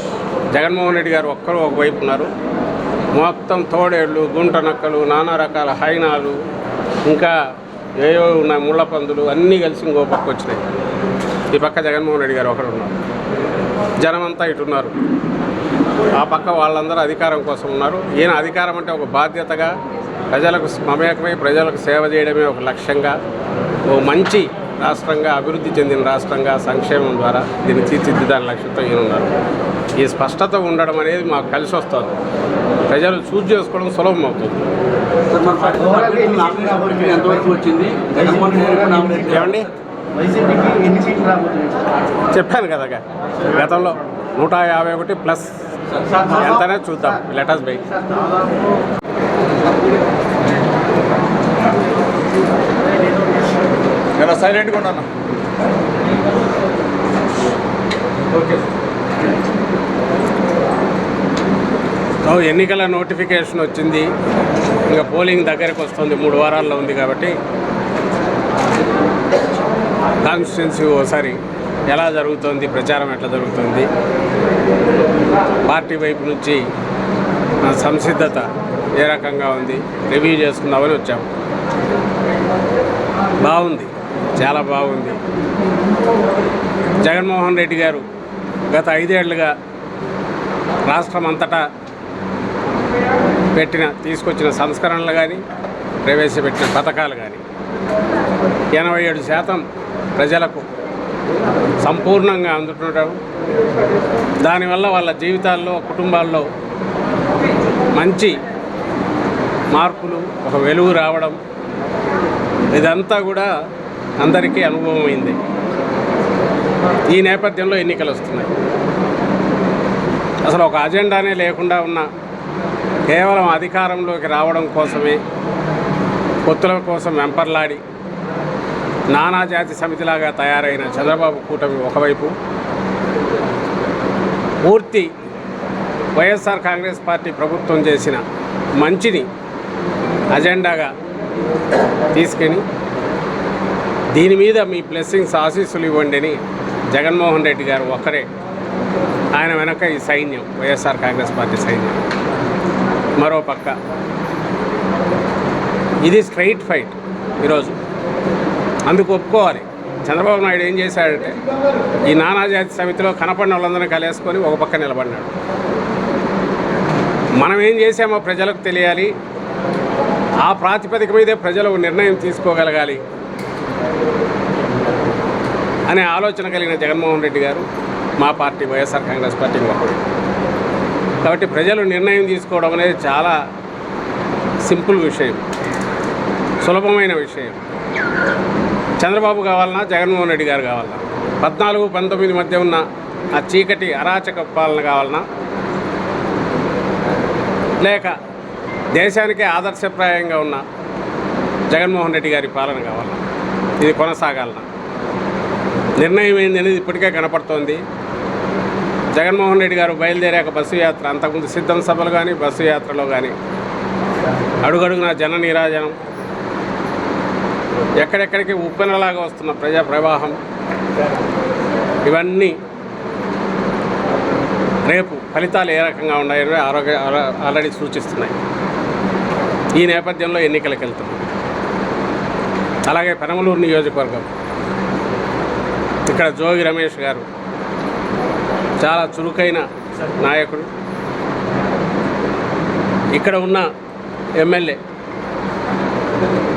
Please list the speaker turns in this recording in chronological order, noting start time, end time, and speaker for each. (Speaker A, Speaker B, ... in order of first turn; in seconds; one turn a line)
Speaker A: 0.5-2.3
Speaker A: 3.1-6.4
Speaker A: 7.1-7.3
Speaker A: 8.0-10.6
Speaker A: 11.5-13.0
Speaker A: 14.0-14.9
Speaker A: 16.2-19.7
Speaker A: 20.3-23.2
Speaker A: 23.9-29.3
Speaker A: 30.0-32.1
Speaker A: 32.9-34.6
Speaker B: 35.3-39.7
Speaker C: 36.0-36.2
Speaker A: 39.3-39.7
Speaker C: 40.1-41.9
Speaker A: 42.3-45.6
Speaker B: 45.9-46.4
Speaker A: 46.2-47.9
Speaker B: 54.2-55.0
Speaker A: 62.2-64.1
Speaker A: 64.9-67.3
Speaker A: 70.2-73.9
Speaker A: 75.7-76.6
Speaker A: 77.6-81.3
Speaker A: 83.4-85.2
Speaker A: 87.0-88.0
Speaker A: 88.7-89.5
Speaker A: 90.9-91.6
Speaker A: 93.5-95.4
Speaker A: 96.0-97.4
Speaker A: 98.8-99.6
Speaker A: 100.2-100.7
Speaker A: 101.8-103.2
Speaker A: 104.4-106.5
Speaker A: 108.0-108.3
Speaker A: 109.7-111.4
Speaker A: 112.7-113.5
Speaker A: 114.2-115.4
Speaker A: 117.1-118.5
Speaker A: 120.5-122.0
Speaker A: 123.1-125.2
Speaker A: 126.5-127.8
Speaker A: 129.1-132.3
Speaker A: 134.6-135.1
Speaker A: 136.2-138.2
Speaker A: 138.8-139.3
Speaker A: 140.3-140.9
Speaker A: 142.1-142.6
Speaker A: 144.1-146.4
Speaker A: 146.9-148.3
Speaker A: 149.3-152.0
Speaker A: 153.2-153.8
Speaker A: 156.0-157.8
Speaker A: 158.9-161.4
Speaker A: 162.1-165.3
Speaker A: 167.4-169.1
Speaker A: 170.4-173.0
Speaker A: 175.9-177.7
Speaker A: 178.2-180.0
Speaker A: 181.2-183.4
Speaker A: 184.6-185.4
Speaker A: 186.6-187.6
Speaker A: 189.0-192.8
Speaker A: 193.3-195.2
Speaker A: 197.8-198.1
Speaker A: 198.9-200.6
Speaker A: 201.7-203.2
Speaker A: 203.8-204.7
Speaker A: 206.0-207.8
Speaker A: 209.1-213.3
Speaker A: 214.6-216.0
Speaker A: 218.0-220.4
Speaker A: 222.1-222.5
Speaker A: 224.9-228.4
Speaker A: 229.8-231.2
Speaker A: 232.8-234.3
Speaker A: 236.1-237.2
Speaker A: 238.8-239.6
Speaker A: 240.2-240.7
Speaker A: 243.2-243.7
Speaker A: 244.4-244.8